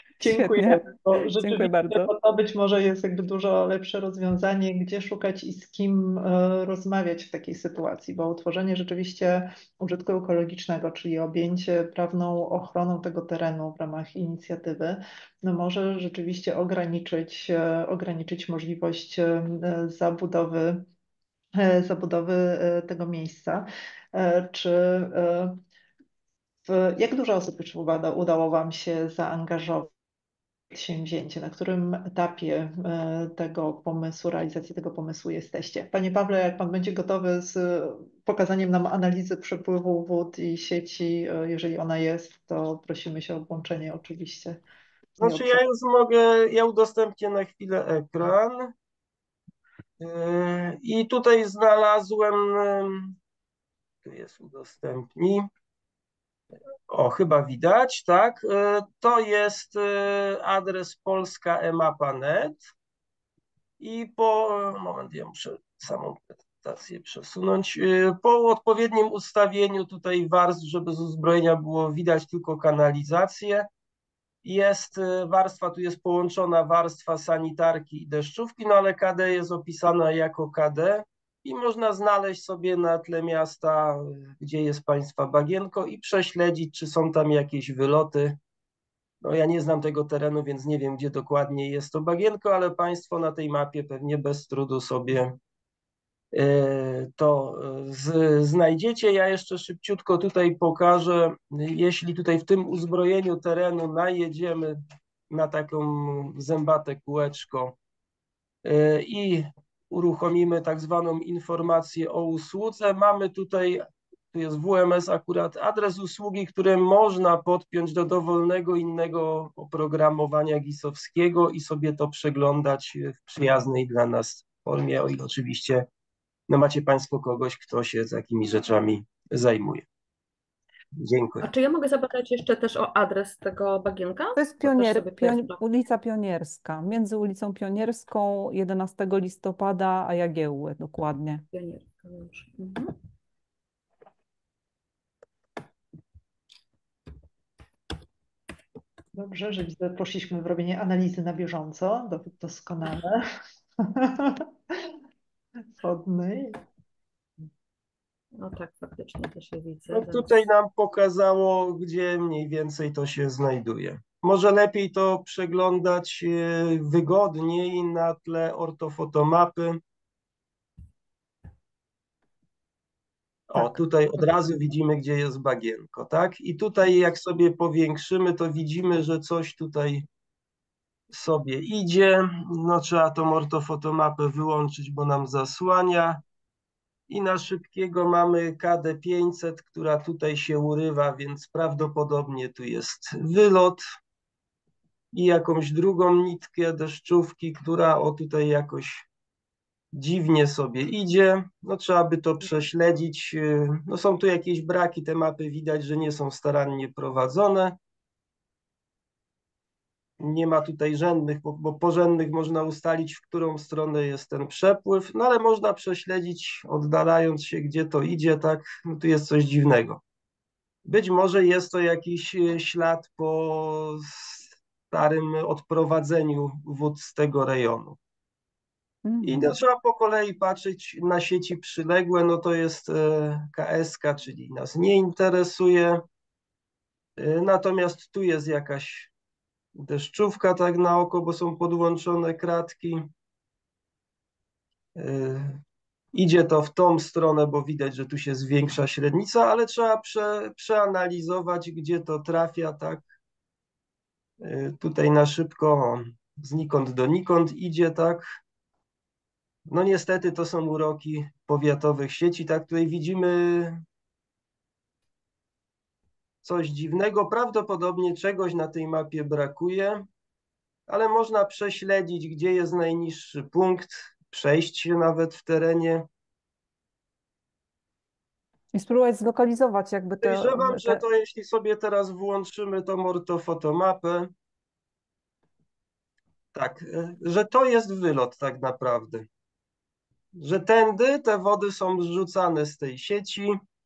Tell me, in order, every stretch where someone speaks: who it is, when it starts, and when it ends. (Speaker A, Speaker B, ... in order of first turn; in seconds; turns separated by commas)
Speaker A: 0.2-20.9, Speaker B: 0.2-2.1, Speaker A: 21.6-25.6, Speaker A: 26.6-29.9, Speaker A: 30.7-44.6, Speaker A: 45.2-45.6, Speaker C: 45.2-48.7, Speaker C: 50.0-53.2, Speaker C: 54.0-55.5, Speaker C: 56.9-62.6, Speaker C: 63.8-73.7, Speaker C: 74.4-88.4, Speaker C: 89.2-95.4, Speaker C: 96.3-104.8, Speaker C: 105.3-107.8, Speaker C: 108.6-125.9, Speaker C: 126.5-129.8, Speaker C: 131.0-131.5, Speaker D: 131.4-135.6, Speaker B: 134.4-141.4, Speaker D: 141.5-142.9, Speaker A: 149.1-153.2, Speaker A: 153.8-154.8, Speaker A: 155.8-156.6, Speaker D: 158.4-160.4, Speaker C: 159.9-169.8, Speaker C: 173.5-180.1, Speaker C: 181.1-186.2, Speaker C: 187.1-193.8, Speaker C: 195.1-199.1, Speaker C: 199.9-207.8, Speaker C: 210.2-220.0, Speaker C: 220.8-228.0, Speaker B: 229.1-229.6, Speaker C: 229.2-236.0, Speaker C: 237.2-239.1, Speaker C: 239.8-243.1, Speaker C: 244.9-245.6, Speaker C: 246.1-253.1, Speaker C: 254.4-258.2, Speaker C: 259.7-263.8, Speaker C: 266.4-270.1, Speaker C: 270.9-276.1, Speaker B: 278.7-281.0, Speaker C: 280.2-284.3, Speaker C: 286.5-289.3, Speaker C: 290.4-293.6